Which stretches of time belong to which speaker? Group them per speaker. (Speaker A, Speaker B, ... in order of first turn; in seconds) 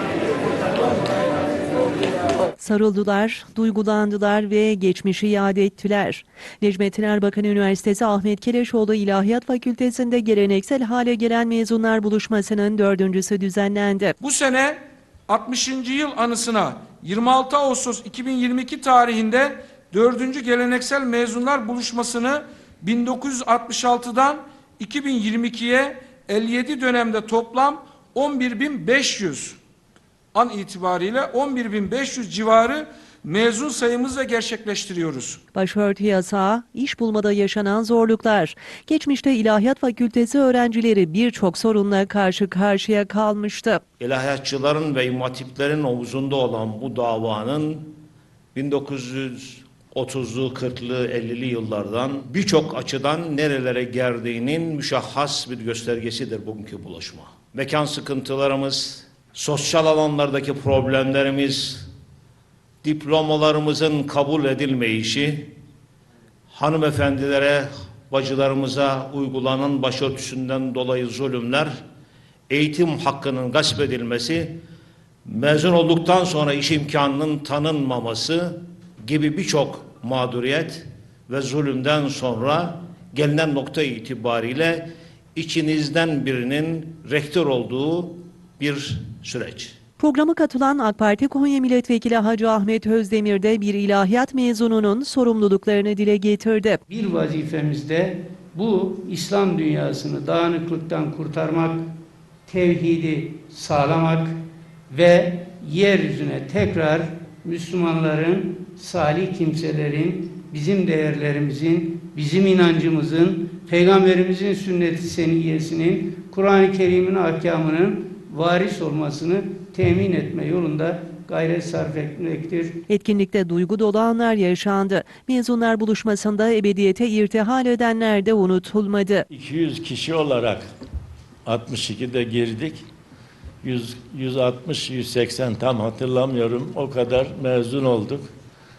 Speaker A: 2.6-14.2, 35.5-43.8, 90.0-96.8, 122.9-129.3
Speaker B: 14.2-29.6, 30.3-35.4
Speaker C: 44.0-48.0, 48.5-61.9, 62.8-65.5, 66.5-71.8, 72.5-74.6, 75.3-89.8
Speaker D: 96.9-101.9, 102.5-104.4, 104.9-122.7
Speaker E: 129.3-130.7, 131.5-132.8, 133.6-138.3